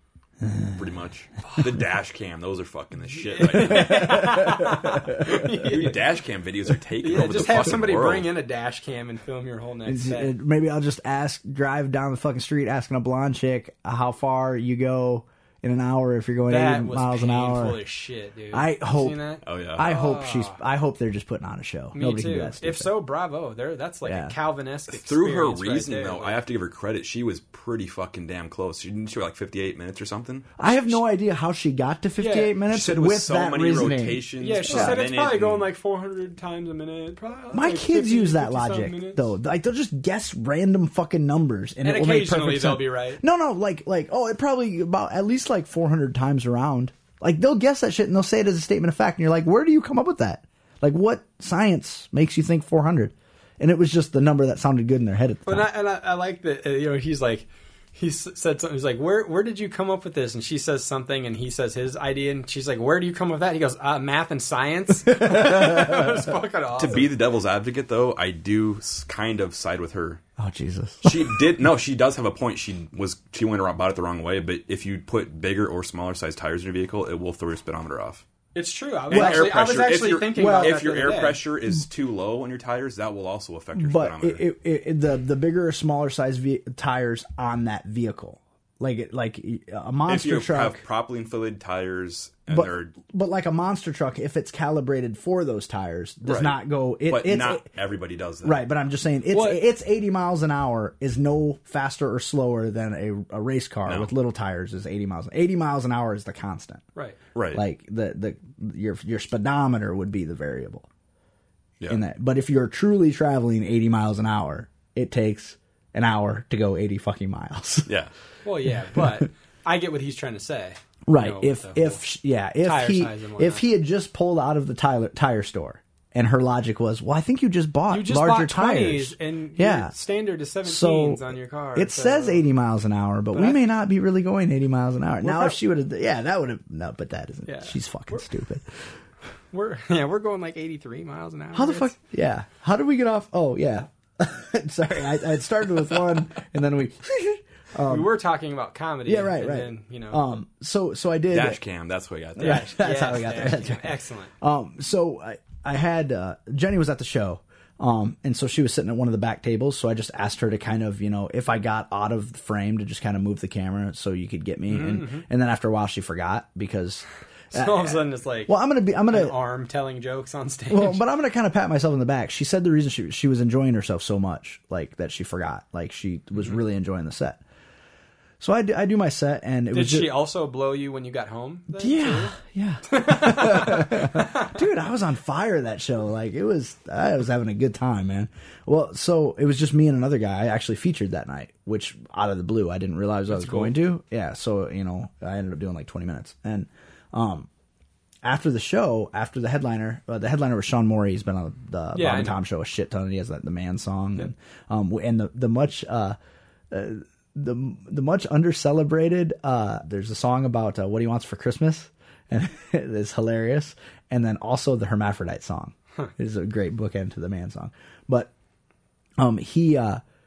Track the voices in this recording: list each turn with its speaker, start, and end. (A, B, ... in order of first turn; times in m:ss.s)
0:00.4-0:00.8 A
0:00.8-0:04.3 B
0:03.1-0:06.0 C
0:03.6-0:05.4 A
0:05.5-0:08.3 B
0:07.0-0:10.4 C
0:09.8-0:17.8 A
0:16.5-0:20.6 C
0:18.5-0:19.2 A
0:19.4-0:19.9 B
0:19.8-0:22.9 A
0:21.9-0:26.4 C
0:24.0-0:24.4 A
0:24.9-0:30.7 B
0:30.6-0:35.0 A
0:32.2-0:32.6 C
0:32.7-0:35.7 B
0:34.4-0:39.3 C
0:37.5-0:55.7 A
0:41.8-0:43.2 C
0:55.5-1:07.0 C
1:05.1-1:06.1 A
1:06.8-1:10.2 B
1:10.4-1:11.5 A
1:11.0-1:18.2 B
1:18.6-1:21.4 C
1:19.1-1:19.6 A
1:19.1-1:24.4 B
1:20.3-1:20.9 A
1:23.8-1:30.8 A
1:30.1-1:33.0 B
1:32.5-1:37.7 A
1:36.2-1:38.6 B
1:38.4-1:46.8 A
1:39.3-1:39.7 C
1:43.9-1:44.1 B
1:47.4-1:47.6 B
1:47.5-1:50.9 A
1:51.9-1:57.9 A
1:57.9-1:58.1 B
1:58.4-2:02.0 C
1:58.9-1:59.2 A
2:01.1-2:09.9 A
2:02.6-2:03.6 C
2:07.9-2:12.4 C
2:10.6-2:18.7 A
2:13.3-2:13.7 C
2:15.2-2:15.6 C
2:17.5-2:18.3 C
2:19.5-2:21.9 C
2:21.5-2:28.1 A
2:27.9-2:30.2 C
2:29.1-2:31.6 A
2:31.3-2:32.8 B
2:32.4-2:49.4 A
2:32.4-2:34.3 C
2:44.7-2:45.3 C
2:47.5-2:51.0 C
2:50.7-2:57.4 A
2:58.4-3:00.1 A
2:59.7-3:02.4 C
3:01.7-3:17.5 A
3:02.9-3:04.5 C
3:13.3-3:13.8 C
3:18.2-3:26.2 A
3:21.9-3:22.4 C
3:26.7-3:38.3 A
3:39.2-3:40.0 A